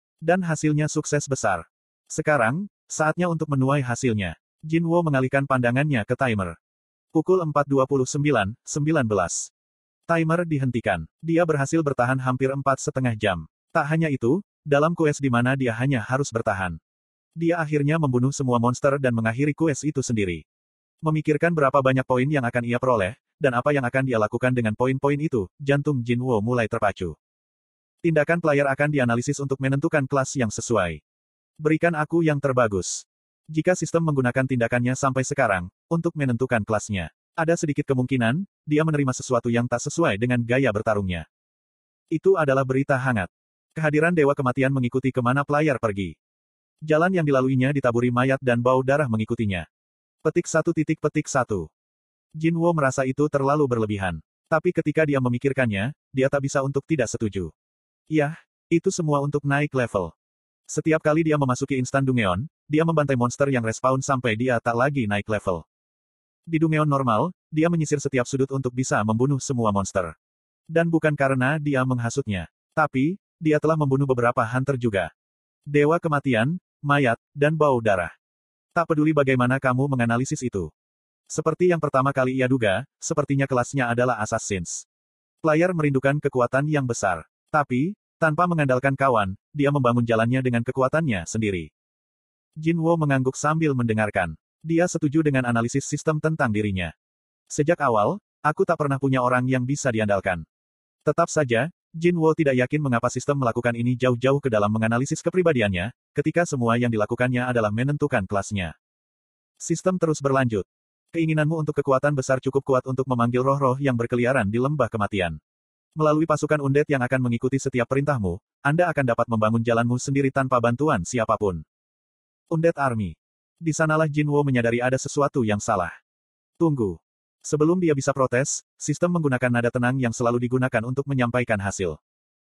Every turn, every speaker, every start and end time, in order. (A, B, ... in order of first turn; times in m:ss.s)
0:00.2-0:06.6 A
0:07.1-0:09.5 A
0:10.1-0:16.8 A
0:17.4-0:20.4 A
0:21.0-0:27.2 A
0:28.0-0:31.0 A
0:31.6-0:41.2 A
0:42.1-0:46.1 A
0:46.9-0:49.6 A
0:50.2-0:51.7 A
0:52.4-0:57.5 A
0:58.1-1:00.1 A
1:00.7-1:05.6 A
1:06.5-1:10.1 A
1:10.7-1:15.1 A
1:15.7-1:18.1 A
1:18.7-1:20.7 A
1:21.3-1:24.8 A
1:25.4-1:31.7 A
1:32.6-1:36.9 A
1:37.5-1:40.4 A
1:41.0-1:48.7 A
1:49.6-1:55.4 A
1:56.0-2:01.6 A
2:02.5-2:05.9 A
2:06.6-2:12.0 A